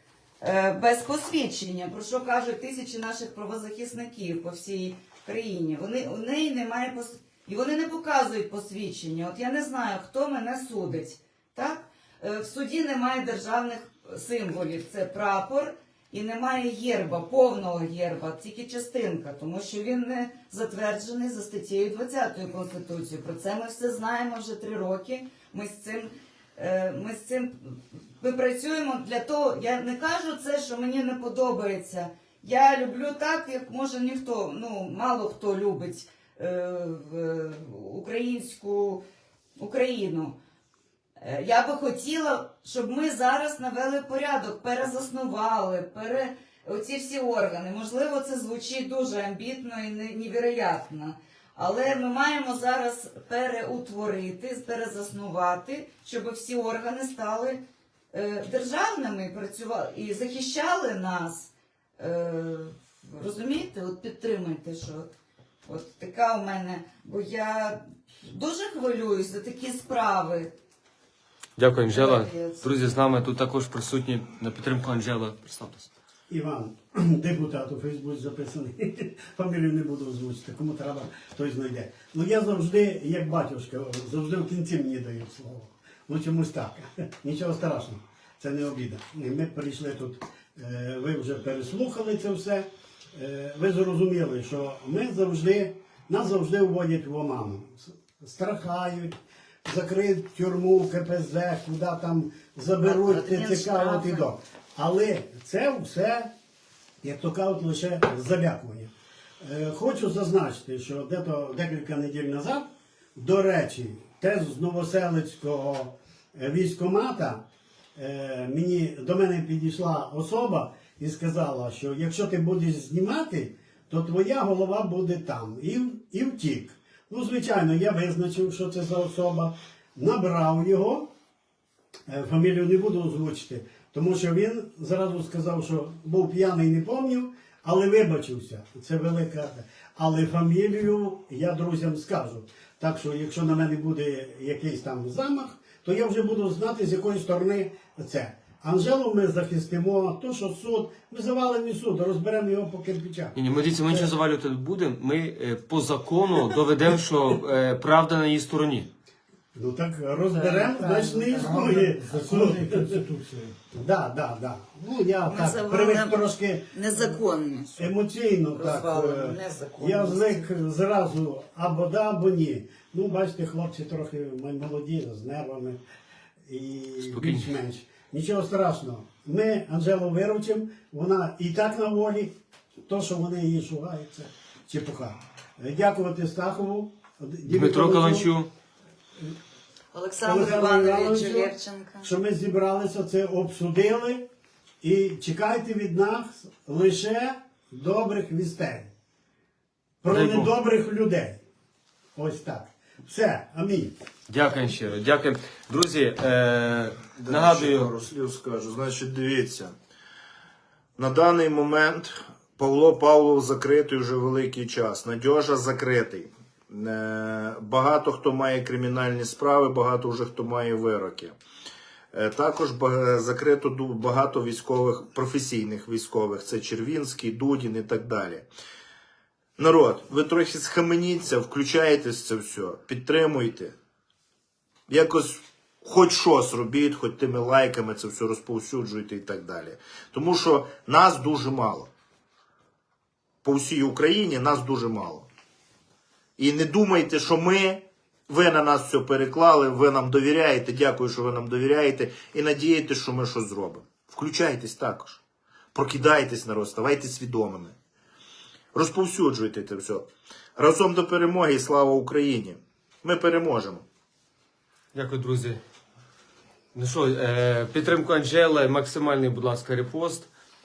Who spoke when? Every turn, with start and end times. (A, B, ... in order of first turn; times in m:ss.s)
0:00.4-0:39.0 A
0:39.6-0:40.4 A
0:41.2-0:57.6 A
0:58.1-1:05.1 A
1:05.6-1:10.5 A
1:11.6-1:15.9 B
1:11.9-1:12.7 A
1:16.3-1:46.3 C
1:42.8-1:44.3 A
1:47.0-1:57.4 C
1:58.0-2:11.1 C
2:12.1-2:34.1 C
2:33.4-2:38.9 B
2:39.5-2:43.0 C
2:40.3-2:41.4 A
2:41.3-2:43.6 D
2:43.7-2:47.1 C
2:45.2-2:47.9 A
2:47.8-2:55.8 C
2:48.5-2:50.5 A
2:56.4-3:08.3 C
2:57.0-2:57.5 B
3:07.4-3:08.5 B
3:09.9-3:12.1 A
3:10.2-3:14.2 C
3:14.8-3:18.9 C
3:20.0-3:21.4 C
3:20.1-3:20.5 B
3:22.1-3:23.9 C
3:24.3-3:28.0 B
3:27.2-3:29.7 E
3:31.0-3:41.4 E
3:42.1-3:48.5 E
3:49.6-3:53.7 E
3:54.9-4:01.9 E
4:03.4-4:05.3 E
4:06.4-4:15.2 E
4:15.7-4:17.7 E
4:18.7-4:23.8 E
4:24.9-4:25.6 B
4:26.7-4:30.3 B